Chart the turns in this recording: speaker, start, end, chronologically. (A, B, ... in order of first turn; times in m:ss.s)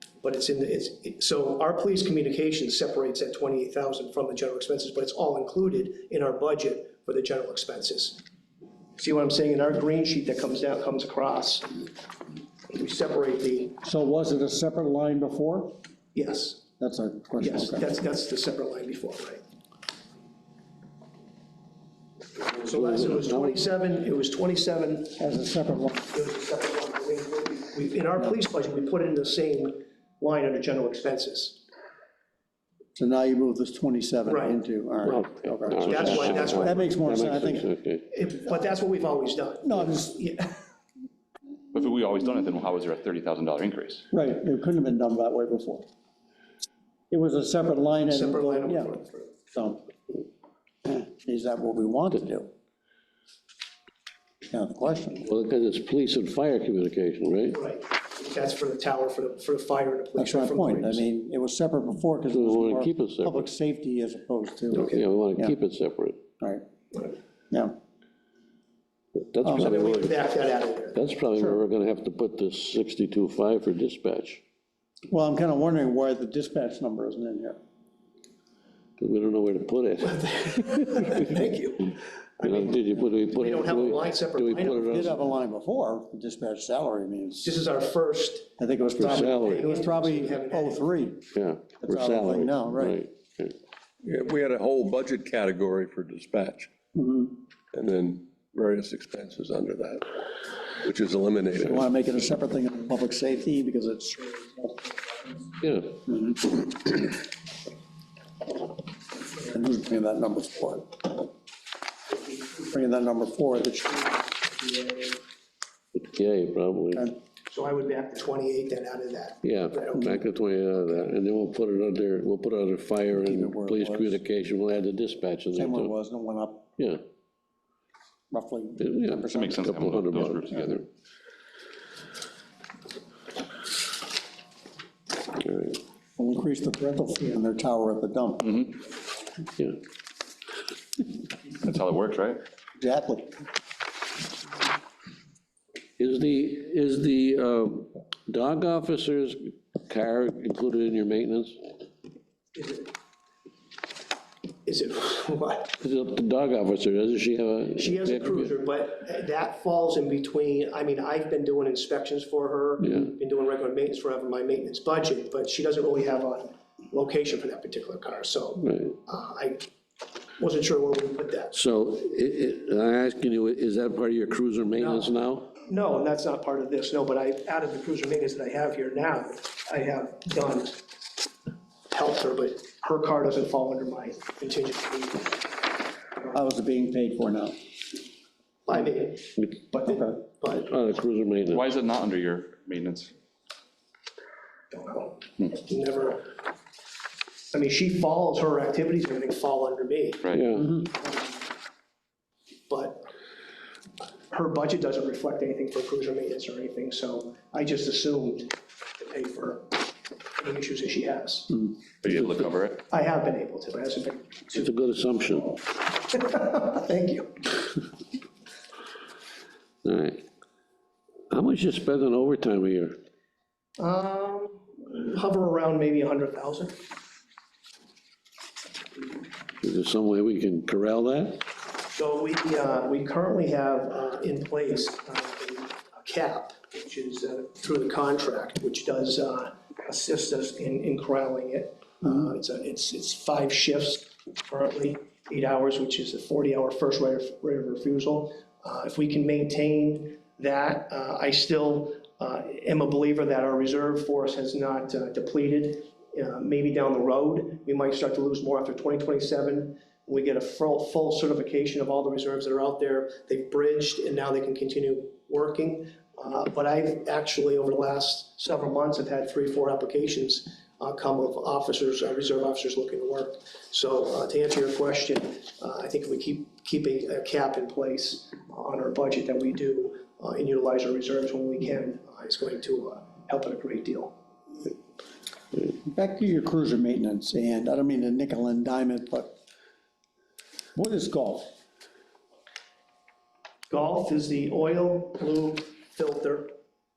0:00.2-0:08.2 A
0:09.0-0:11.9 A
0:12.7-0:13.8 A
0:13.8-0:15.7 B
0:16.1-0:16.6 A
0:16.8-0:17.9 B
0:17.4-0:19.4 A
0:22.6-0:25.2 A
0:22.6-0:23.6 C
0:25.2-0:26.1 B
0:26.1-0:31.6 A
0:32.9-0:37.7 B
0:34.3-0:34.6 A
0:35.0-0:38.0 C
0:35.8-0:37.0 A
0:38.1-0:40.6 A
0:39.6-0:40.2 B
0:41.7-0:44.0 D
0:44.1-0:45.9 B
0:47.1-0:49.8 B
0:48.1-0:49.3 A
0:50.8-0:52.5 B
0:54.5-0:55.3 B
0:55.2-0:57.6 C
0:57.5-1:01.0 A
1:00.2-1:05.6 B
1:02.3-1:03.5 C
1:04.7-1:06.2 C
1:09.3-1:10.2 C
1:09.5-1:11.0 A
1:10.9-1:14.4 C
1:15.1-1:17.6 B
1:19.0-1:21.4 C
1:20.0-1:25.1 A
1:22.4-1:25.2 C
1:24.8-1:27.6 B
1:27.4-1:28.5 A
1:28.6-1:31.2 B
1:29.0-1:29.6 C
1:29.0-1:30.9 A
1:31.3-1:33.5 C
1:31.8-1:33.0 B
1:34.0-1:36.7 E
1:36.9-1:37.4 B
1:37.7-1:40.1 E
1:40.8-1:41.8 E
1:41.6-1:45.4 B
1:45.6-1:45.9 C
1:46.0-1:47.1 B
1:49.3-1:51.2 B
1:52.4-1:54.4 B
1:54.6-1:55.2 A
1:55.9-1:57.1 C
1:57.5-2:00.2 A
1:59.4-2:05.9 C
2:03.1-2:04.2 B
2:05.5-2:06.7 B
2:08.3-2:09.6 B
2:08.8-2:10.8 C
2:09.2-2:10.8 D
2:15.4-2:15.8 C
2:16.2-2:18.7 B
2:21.6-2:22.4 D
2:22.8-2:23.4 B
2:26.0-2:31.6 C
2:32.5-2:32.9 A
2:34.6-2:35.8 A
2:35.8-2:38.5 C
2:37.8-2:49.7 A
2:42.8-2:43.1 C
2:48.6-2:48.9 C
2:50.4-2:51.5 A
2:51.5-2:55.5 C
2:54.8-2:55.1 A
2:55.6-3:00.8 A
3:01.9-3:05.5 A
3:06.3-3:07.6 B
3:08.6-3:10.7 A
3:09.8-3:10.2 B
3:10.6-3:11.7 C
3:11.5-3:13.1 D
3:14.7-3:16.3 A
3:17.5-3:20.2 A
3:20.3-3:20.7 C
3:21.0-3:21.3 A
3:22.7-3:23.0 A
3:24.3-3:29.9 A
3:30.4-3:31.7 A
3:32.0-3:32.8 D
3:32.1-3:32.4 C
3:32.9-3:34.7 A
3:34.5-3:35.6 C
3:36.0-3:37.5 A
3:39.8-3:40.2 C
3:41.3-3:42.9 C
3:43.8-3:46.8 A
3:49.6-3:51.4 C
3:51.9-4:44.1 A
4:45.8-4:49.4 B
4:50.7-4:51.5 B
4:53.7-4:56.5 A